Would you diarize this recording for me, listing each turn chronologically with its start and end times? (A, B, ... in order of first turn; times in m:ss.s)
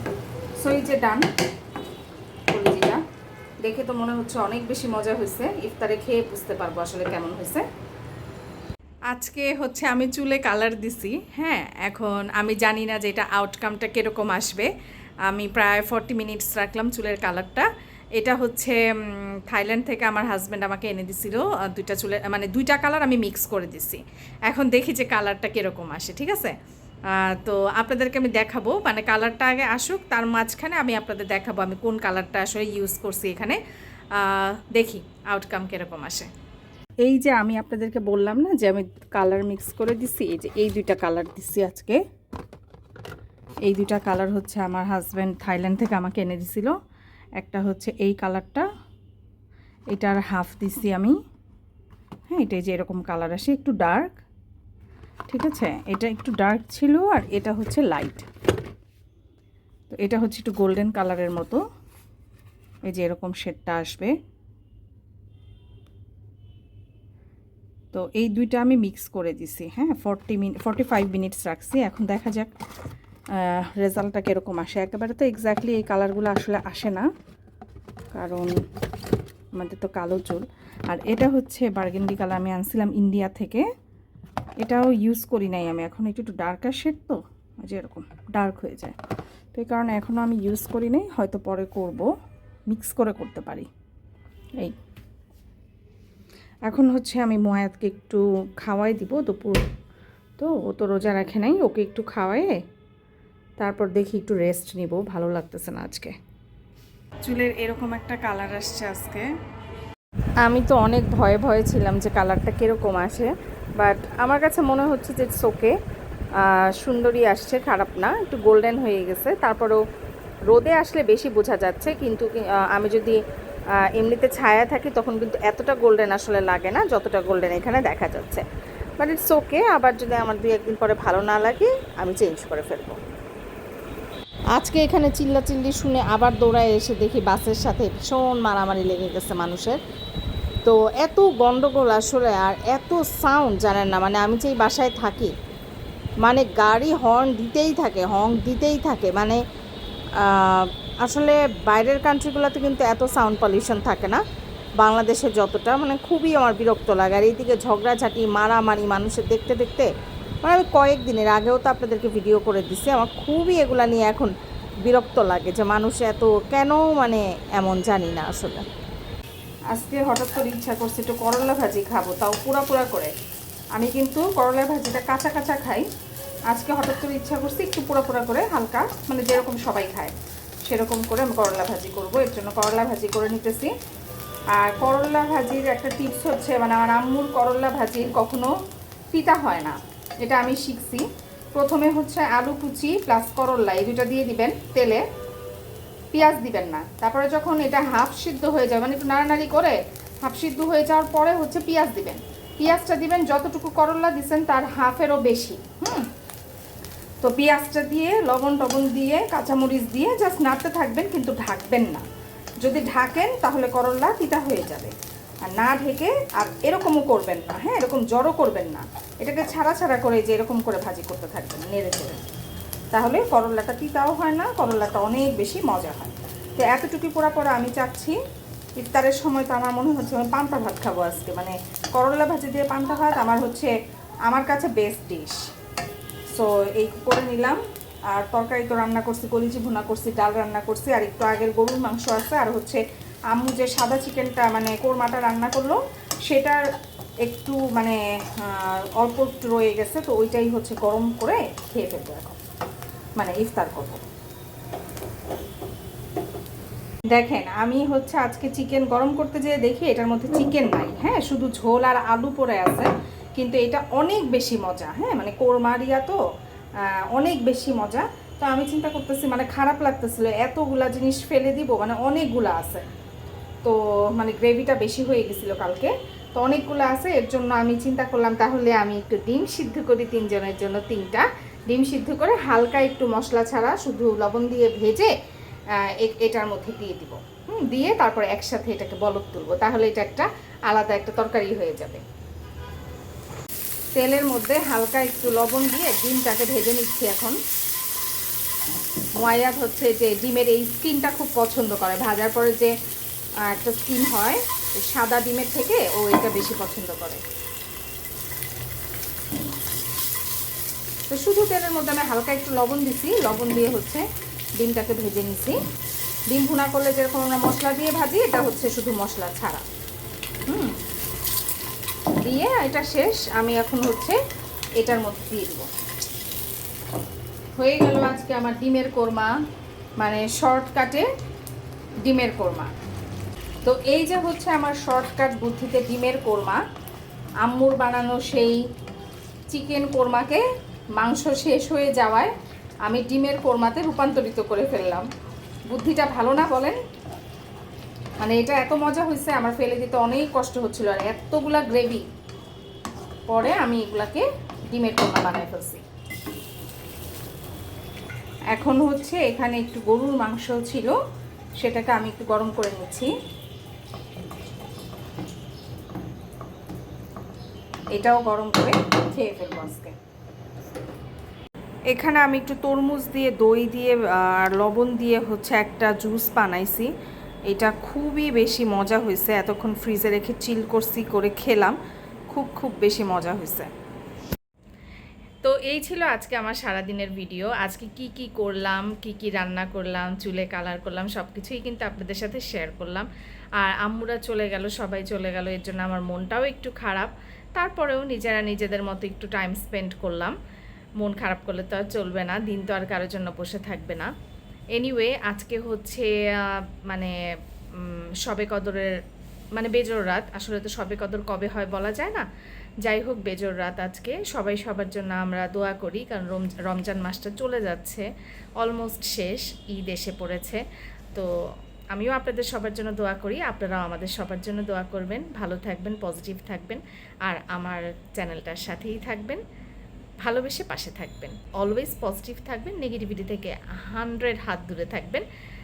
0:00.6-0:01.3 A
0:02.5-0:03.0 A
0:03.6-0:07.6 A
0:09.1-0:14.7 A
0:15.3-0:26.6 A
0:27.1-0:33.6 A
0:34.2-0:36.3 A
0:37.0-0:42.0 A
0:43.7-0:46.7 A
0:47.4-0:48.6 A
0:49.9-0:51.2 A
0:52.3-0:54.2 A
0:55.3-0:58.3 A
0:59.9-1:01.6 A
1:02.9-1:04.1 A
1:07.9-1:12.5 A
1:13.4-1:17.1 A
1:18.2-1:18.5 A
1:19.6-1:23.6 A
1:24.6-1:29.0 A
1:29.5-1:32.1 A
1:32.7-1:33.7 A
1:36.7-1:39.6 A
1:40.4-1:42.5 A
1:43.6-1:46.1 A
1:47.2-1:49.2 A
1:50.4-1:55.7 A
1:56.4-1:59.8 A
2:00.5-2:03.2 A
2:04.0-2:08.4 A
2:09.0-2:13.0 A
2:14.6-2:19.8 A
2:20.6-2:25.3 A
2:26.2-2:29.4 A
2:30.2-2:34.2 A
2:34.8-2:39.9 A
2:40.4-2:44.3 A
2:44.9-2:48.6 A
2:49.7-2:53.1 A
2:53.8-2:55.8 A
2:56.5-3:00.2 A
3:00.7-3:03.7 A
3:04.6-3:08.5 A
3:09.1-3:15.0 A
3:16.1-3:26.1 A
3:27.2-3:32.0 A
3:32.6-3:34.9 A
3:35.5-3:42.2 A
3:42.9-3:48.2 A
3:48.8-3:53.7 A
3:54.3-3:55.4 A
3:56.3-3:57.6 A
3:58.1-4:06.6 A
4:07.2-4:12.4 A
4:13.2-4:14.0 A
4:17.1-4:26.2 A
4:27.1-4:32.9 A
4:33.6-4:45.1 A
4:45.8-4:52.0 A
4:54.0-4:57.4 A
4:59.2-5:02.7 A
5:03.5-5:07.2 A
5:11.1-5:14.0 A
5:14.6-5:15.6 A
5:16.3-5:19.6 A
5:20.5-5:20.8 A
5:22.3-5:24.2 A
5:24.8-5:25.7 A
5:27.6-5:29.3 A
5:30.0-5:31.1 A
5:32.1-5:32.7 A
5:33.6-5:36.6 A
5:37.4-5:38.6 A
5:39.5-5:40.4 A
5:41.0-5:42.3 A
5:42.9-5:45.1 A
5:45.7-5:46.8 A
5:48.2-5:52.0 A
5:53.3-5:55.8 A
5:58.5-6:01.0 A
6:01.6-6:03.1 A
6:08.0-6:09.9 A
6:11.9-6:16.9 A
6:17.5-6:21.8 A
6:22.3-6:23.7 A
6:25.4-6:33.1 A
6:33.6-6:40.3 A
6:41.0-6:44.1 A
6:44.8-6:46.1 A
6:46.9-6:47.1 A
6:47.8-6:48.9 A
6:49.6-6:52.2 A
6:52.9-6:58.1 A
6:58.6-7:00.6 A
7:01.9-7:09.4 A
7:10.2-7:15.2 A